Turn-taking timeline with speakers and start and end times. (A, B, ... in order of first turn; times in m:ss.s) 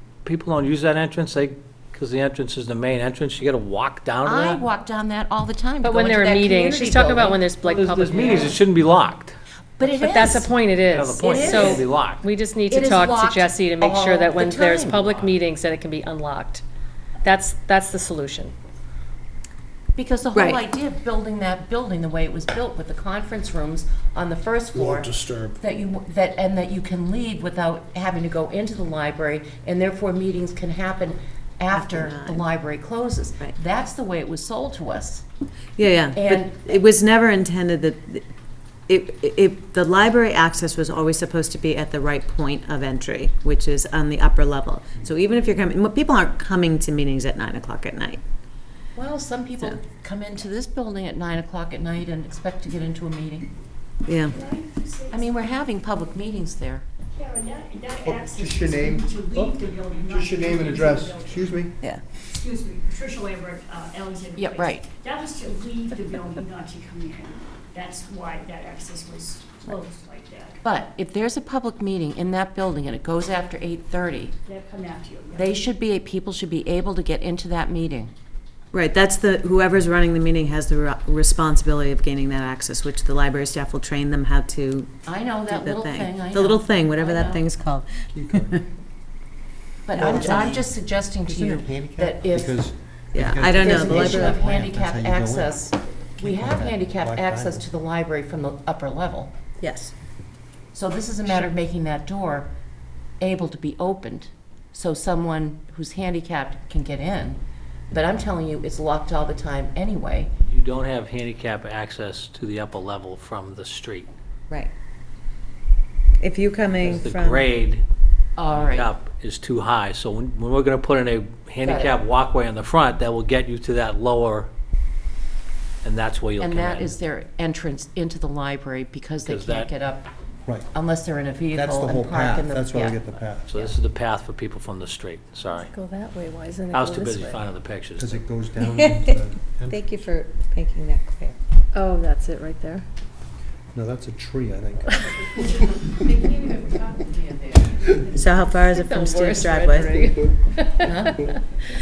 0:00.2-0:04.6 A
0:04.2-0:07.4 B
0:05.8-0:08.6 C
0:07.6-0:09.4 A
0:09.8-0:10.5 B
0:09.8-0:16.6 C
0:10.9-0:12.2 A
0:11.2-0:11.9 B
0:12.7-0:15.0 B
0:14.9-0:15.3 A
0:17.2-0:18.5 C
0:20.0-0:35.2 B
0:20.3-0:20.6 D
0:24.7-0:25.6 E
0:31.7-0:32.4 D
0:35.8-0:38.2 D
0:36.1-0:36.6 B
0:38.9-0:48.2 D
0:49.0-0:53.5 B
0:54.0-0:54.3 D
0:54.2-0:55.4 F
0:55.1-0:56.8 B
0:57.1-1:01.6 F
0:58.0-1:01.7 E
1:02.2-1:10.6 F
1:04.4-1:04.9 B
1:10.6-1:14.4 B
1:14.4-1:15.6 F
1:15.3-1:18.1 B
1:18.7-1:28.6 D
1:25.0-1:27.4 B
1:28.1-1:28.5 E
1:29.8-1:32.6 B
1:29.9-1:35.6 E
1:30.0-1:30.6 D
1:33.1-1:34.4 D
1:33.6-1:39.3 B
1:36.2-1:37.7 E
1:39.6-1:39.9 D
1:40.7-1:42.5 B
1:43.2-1:47.4 B
1:47.9-1:50.3 B
1:50.4-1:54.1 A
1:56.2-1:57.5 D
1:56.8-1:57.8 A
1:58.4-1:58.9 B
1:58.5-2:04.5 A
2:01.6-2:02.0 B
2:05.8-2:07.0 A
2:06.4-2:10.1 B
2:09.2-2:09.7 A
2:10.4-2:10.7 E
2:10.7-2:13.8 B
2:11.5-2:13.6 E
2:13.5-2:15.7 A
2:15.6-2:17.4 C
2:16.7-2:18.2 A
2:18.0-2:19.8 E
2:18.6-2:21.4 D
2:21.7-2:22.8 C
2:23.7-2:25.0 E
2:25.4-2:27.7 B
2:28.1-2:30.1 D
2:29.0-2:30.2 B
2:30.5-2:31.4 C
2:30.8-2:31.2 B